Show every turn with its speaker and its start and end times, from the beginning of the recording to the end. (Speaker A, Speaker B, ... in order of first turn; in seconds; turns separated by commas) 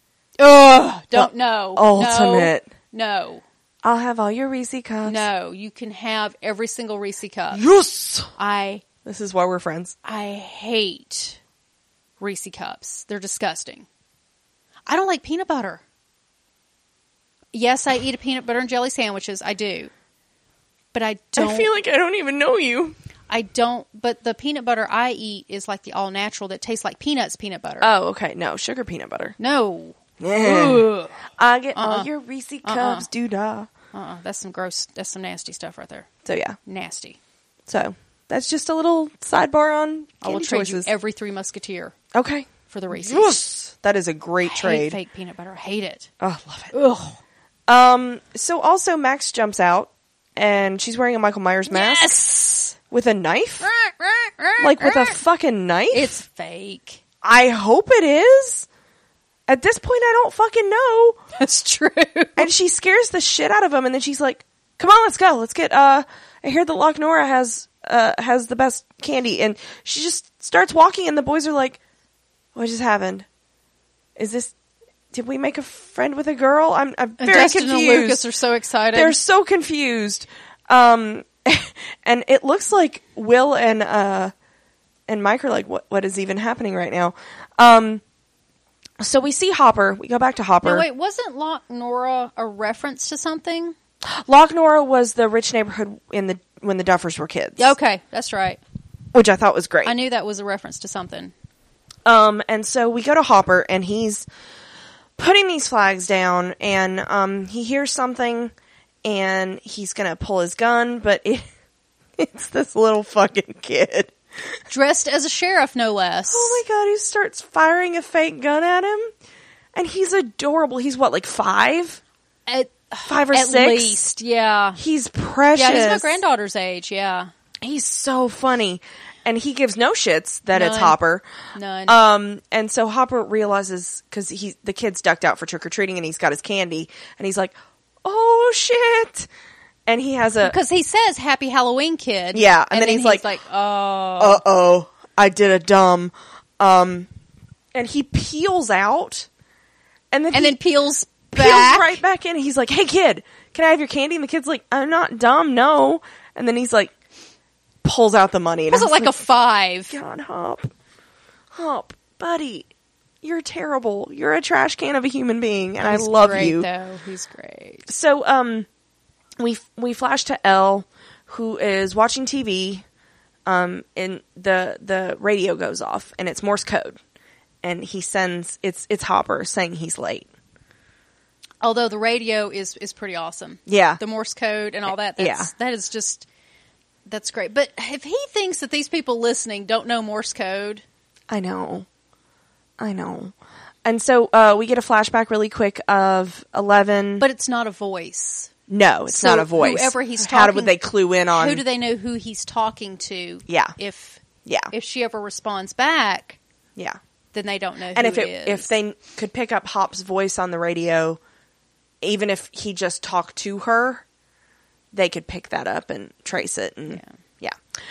Speaker A: 0.4-3.4, Speaker B: 1.1-2.7, Speaker B: 3.8-5.3, Speaker A: 5.0-7.6, Speaker B: 7.5-8.3, Speaker A: 8.4-8.8, Speaker B: 9.0-9.9, Speaker A: 10.0-11.4, Speaker A: 12.2-13.9, Speaker A: 14.9-15.8, Speaker A: 17.5-19.9, Speaker A: 20.9-21.7, Speaker B: 21.4-23.0, Speaker A: 23.3-27.9, Speaker B: 27.8-29.4, Speaker A: 29.4-31.2, Speaker B: 30.2-33.7, Speaker A: 31.8-32.1, Speaker A: 32.6-33.1, Speaker A: 33.9-36.1, Speaker B: 36.2-36.6, Speaker A: 36.6-37.2, Speaker B: 37.7-40.9, Speaker A: 40.2-42.0, Speaker B: 42.1-45.0, Speaker A: 42.7-43.4, Speaker A: 44.5-46.1, Speaker B: 46.2-46.7, Speaker A: 46.7-47.2, Speaker B: 47.7-52.1, Speaker A: 51.7-52.8, Speaker B: 52.9-53.7, Speaker A: 53.6-55.2, Speaker B: 54.6-56.2, Speaker A: 55.9-57.0, Speaker B: 57.2-58.7, Speaker B: 59.5-61.2, Speaker A: 61.4-62.5, Speaker B: 62.4-71.8, Speaker B: 72.5-73.3, Speaker B: 74.2-74.5, Speaker B: 75.1-78.2, Speaker A: 77.2-79.2, Speaker B: 78.9-84.3, Speaker B: 85.1-88.0, Speaker B: 89.0-90.9, Speaker A: 90.6-93.8, Speaker B: 94.1-97.8, Speaker A: 97.6-98.6, Speaker B: 99.1-100.0, Speaker A: 99.8-101.3, Speaker B: 102.1-104.3, Speaker B: 105.2-108.5, Speaker B: 109.0-111.5, Speaker B: 112.2-114.2, Speaker A: 114.7-116.6, Speaker B: 116.3-119.1, Speaker B: 119.8-122.0, Speaker A: 122.5-124.8, Speaker B: 123.1-124.0, Speaker B: 124.8-126.2, Speaker A: 125.5-127.3, Speaker B: 127.6-131.2, Speaker A: 130.5-131.0, Speaker A: 131.5-132.0, Speaker B: 131.9-139.3, Speaker B: 139.9-140.5, Speaker A: 140.4-144.4, Speaker B: 142.3-143.2, Speaker B: 144.2-147.1, Speaker B: 147.7-149.3, Speaker B: 150.1-150.6, Speaker A: 150.3-152.0, Speaker B: 151.3-156.9, Speaker B: 157.8-159.2, Speaker A: 158.7-159.9, Speaker B: 159.9-160.7, Speaker B: 161.5-162.7, Speaker B: 163.2-166.7, Speaker A: 165.8-167.9, Speaker B: 167.9-168.7, Speaker B: 169.4-172.8, Speaker B: 173.5-177.0, Speaker B: 177.6-180.3, Speaker A: 181.6-186.3, Speaker B: 183.7-184.0, Speaker B: 185.2-185.5, Speaker A: 187.1-190.8, Speaker B: 191.3-191.9, Speaker B: 192.8-193.3, Speaker B: 193.8-197.3, Speaker A: 197.2-198.5, Speaker B: 198.7-201.6, Speaker A: 199.1-200.8, Speaker A: 201.3-206.4, Speaker B: 203.5-203.8, Speaker B: 204.4-204.7, Speaker A: 207.3-208.7, Speaker B: 207.9-211.2, Speaker B: 212.0-214.0, Speaker B: 214.9-217.6